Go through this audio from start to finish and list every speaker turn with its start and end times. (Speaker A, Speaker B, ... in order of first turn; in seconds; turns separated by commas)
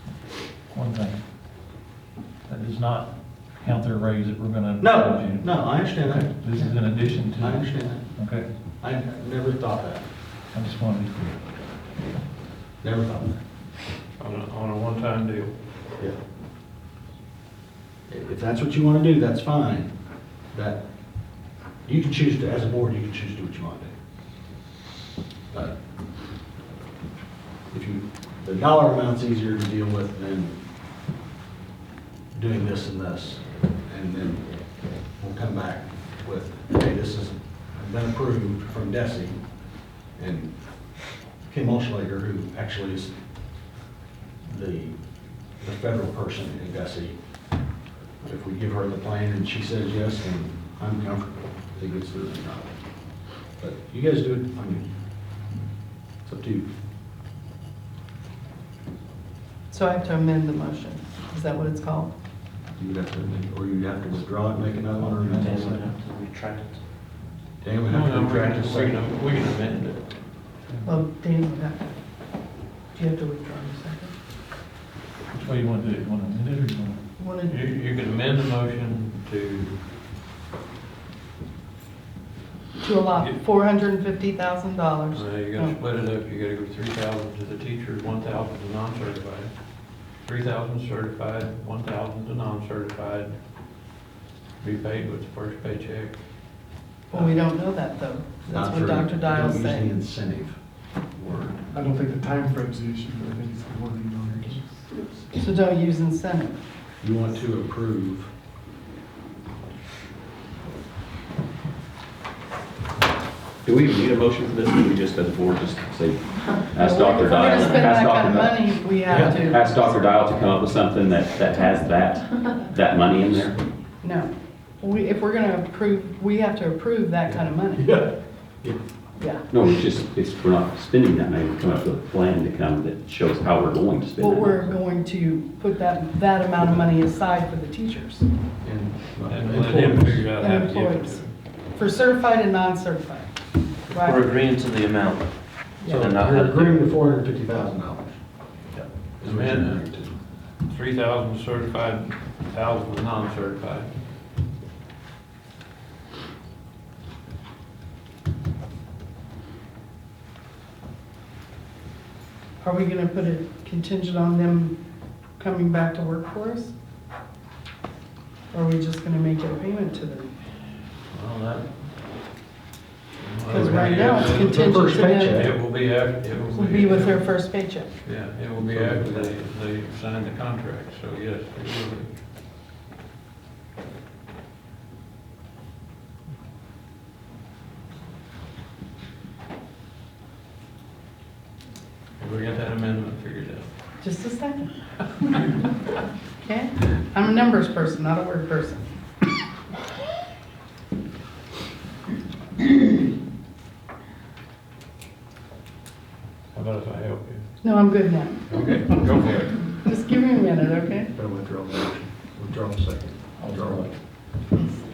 Speaker A: 0.7-1.2, Speaker A: 2.5-8.5, Speaker B: 4.8-6.7, Speaker B: 7.4-8.1, Speaker B: 8.8-10.1, Speaker A: 10.5-11.4, Speaker B: 12.8-13.4, Speaker C: 14.2-15.6, Speaker B: 18.1-19.9, Speaker B: 20.5-20.9, Speaker B: 21.9-23.9, Speaker B: 27.7-30.6, Speaker B: 32.3-34.5, Speaker B: 35.1-39.4, Speaker B: 40.2-40.5, Speaker B: 41.5-43.1, Speaker B: 44.4-45.0, Speaker B: 45.6-47.2, Speaker B: 48.2-52.7, Speaker B: 53.6-54.9, Speaker B: 56.2-56.7, Speaker D: 59.7-62.1, Speaker B: 62.8-65.8, Speaker A: 65.0-65.9, Speaker E: 65.3-66.8, Speaker B: 67.6-69.0, Speaker C: 67.9-70.0, Speaker A: 70.7-71.0, Speaker D: 70.8-72.0, Speaker D: 73.0-74.1, Speaker A: 75.3-77.0, Speaker D: 77.2-77.6, Speaker C: 77.5-79.8, Speaker D: 82.8-85.8, Speaker C: 85.1-93.4, Speaker C: 94.6-96.2, Speaker D: 97.1-100.0, Speaker B: 98.5-100.6, Speaker B: 101.1-101.6, Speaker F: 101.7-105.3, Speaker D: 105.4-106.6, Speaker B: 107.0-108.3, Speaker G: 113.7-118.7, Speaker D: 116.8-120.0, Speaker B: 119.1-119.5, Speaker G: 119.3-123.6, Speaker D: 124.0-127.9, Speaker B: 127.3-128.8, Speaker D: 129.2-129.5, Speaker G: 129.5-134.7, Speaker D: 134.2-138.2, Speaker B: 138.6-140.3, Speaker C: 139.3-141.3, Speaker D: 140.4-141.2, Speaker D: 141.8-143.4, Speaker D: 143.9-144.3, Speaker E: 143.9-146.9, Speaker D: 145.8-146.1, Speaker B: 145.9-148.2, Speaker B: 148.7-150.1, Speaker C: 149.2-149.8, Speaker C: 150.7-153.9, Speaker D: 162.6-164.8, Speaker D: 165.4-166.7, Speaker D: 168.5-170.3, Speaker C: 171.1-171.6, Speaker C: 173.2-177.3, Speaker B: 173.4-175.6, Speaker D: 173.5-175.5, Speaker D: 176.4-177.9, Speaker C: 178.1-182.2, Speaker B: 178.6-179.3, Speaker C: 192.2-193.7, Speaker D: 194.0-194.7, Speaker D: 196.4-198.9, Speaker C: 206.5-207.4, Speaker D: 207.6-208.3, Speaker C: 208.5-209.7, Speaker D: 209.7-211.1, Speaker B: 211.1-213.9, Speaker A: 213.4-213.9, Speaker D: 214.5-214.8